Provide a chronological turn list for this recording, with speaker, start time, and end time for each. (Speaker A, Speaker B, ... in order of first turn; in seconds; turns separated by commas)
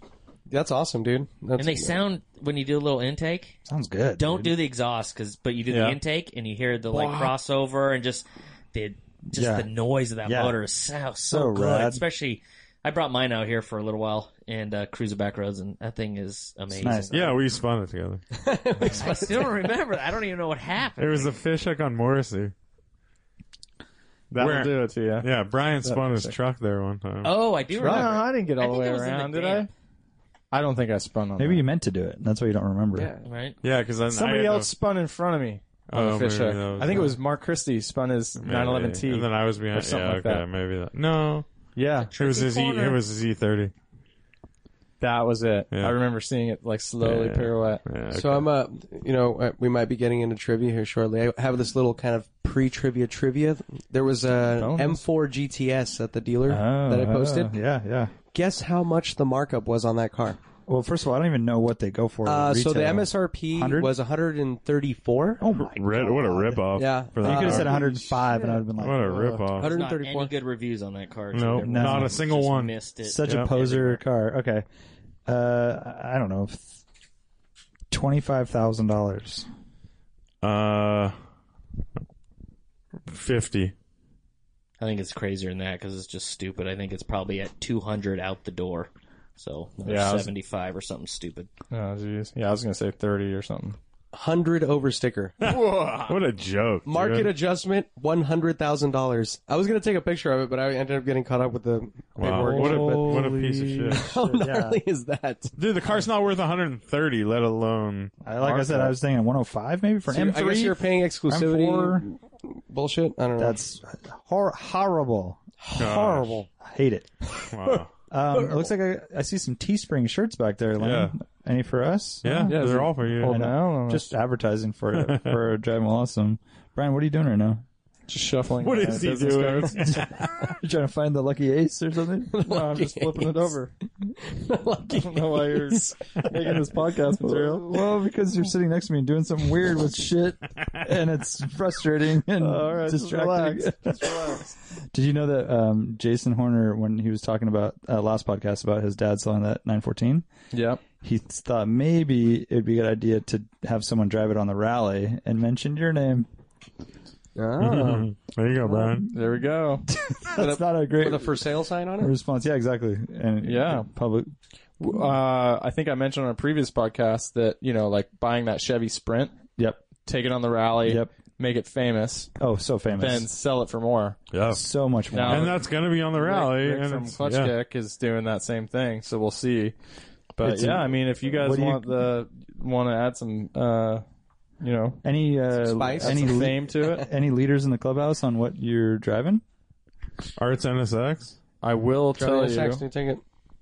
Speaker A: 0.5-2.0, Speaker B: 1.6-3.6, Speaker C: 3.6-4.5, Speaker B: 4.2-17.4, Speaker D: 5.7-6.0, Speaker D: 6.9-7.3, Speaker C: 9.3-9.7, Speaker C: 10.2-10.6, Speaker C: 11.2-12.0, Speaker C: 16.7-17.3, Speaker E: 17.1-18.2, Speaker A: 18.3-19.6, Speaker B: 18.8-21.4, Speaker E: 21.0-22.5, Speaker D: 24.3-25.3, Speaker E: 24.3-27.3, Speaker D: 25.8-26.3, Speaker B: 27.2-29.7, Speaker D: 27.8-29.7, Speaker A: 27.8-28.2, Speaker D: 30.5-31.6, Speaker C: 31.4-33.1, Speaker A: 32.9-33.2, Speaker B: 33.2-33.6, Speaker E: 33.6-34.7, Speaker D: 34.1-40.4, Speaker E: 35.9-37.1, Speaker E: 38.4-41.5, Speaker D: 41.8-42.1, Speaker B: 42.0-43.0, Speaker E: 42.2-43.7, Speaker D: 45.0-47.8, Speaker E: 45.7-46.0, Speaker E: 47.0-48.5, Speaker A: 48.1-57.5, Speaker D: 54.5-55.0, Speaker C: 56.5-58.1, Speaker A: 58.3-60.4, Speaker C: 60.7-63.9, Speaker A: 62.2-65.5, Speaker C: 65.4-66.6, Speaker E: 65.6-67.8, Speaker A: 66.6-68.1, Speaker C: 67.1-69.2, Speaker D: 67.2-68.3, Speaker E: 68.8-69.7, Speaker D: 69.0-69.5, Speaker A: 69.5-70.3, Speaker B: 69.6-74.0, Speaker E: 71.3-73.5, Speaker C: 71.6-72.1, Speaker C: 73.0-74.7, Speaker C: 75.2-76.8, Speaker C: 77.9-79.5, Speaker E: 80.4-81.1, Speaker E: 83.1-83.7, Speaker B: 84.8-91.5, Speaker D: 89.8-90.3, Speaker D: 91.7-93.8, Speaker A: 94.1-95.3, Speaker D: 95.4-96.2, Speaker E: 95.4-97.3, Speaker A: 96.8-105.5, Speaker E: 102.2-104.1, Speaker C: 102.2-103.4, Speaker D: 102.4-103.7, Speaker C: 104.0-104.8, Speaker E: 105.6-108.1, Speaker C: 108.2-112.0, Speaker D: 108.4-108.9, Speaker A: 110.1-113.6, Speaker C: 113.4-117.1, Speaker E: 115.7-116.4, Speaker A: 117.3-117.8, Speaker E: 117.5-117.9, Speaker C: 118.1-122.6, Speaker A: 118.3-118.6, Speaker E: 120.8-121.1, Speaker E: 122.2-123.4, Speaker D: 122.4-124.1, Speaker C: 123.2-127.6, Speaker E: 125.0-125.3, Speaker D: 128.1-130.0, Speaker E: 128.6-130.5, Speaker C: 129.8-132.4, Speaker A: 132.3-133.5, Speaker D: 132.4-133.7, Speaker A: 134.1-135.8, Speaker D: 134.9-137.8, Speaker C: 137.4-150.3, Speaker D: 142.4-144.5, Speaker D: 150.5-150.8, Speaker C: 151.0-156.3, Speaker A: 157.3-158.1, Speaker E: 157.6-159.1, Speaker D: 159.1-159.9, Speaker C: 159.9-161.5, Speaker A: 160.3-162.1, Speaker C: 162.0-164.3, Speaker D: 163.4-163.9, Speaker D: 164.8-169.3, Speaker C: 169.6-169.8, Speaker D: 170.0-172.3, Speaker C: 170.8-171.1, Speaker C: 172.4-173.3, Speaker D: 172.9-174.2, Speaker E: 174.3-174.6, Speaker C: 174.5-175.5, Speaker D: 175.1-179.8, Speaker E: 175.2-177.5, Speaker D: 180.3-184.0, Speaker C: 180.4-182.1, Speaker D: 184.6-185.0, Speaker C: 185.0-189.4, Speaker A: 185.6-186.5, Speaker D: 185.7-187.1, Speaker E: 190.4-191.3, Speaker D: 191.6-192.8, Speaker A: 192.2-193.2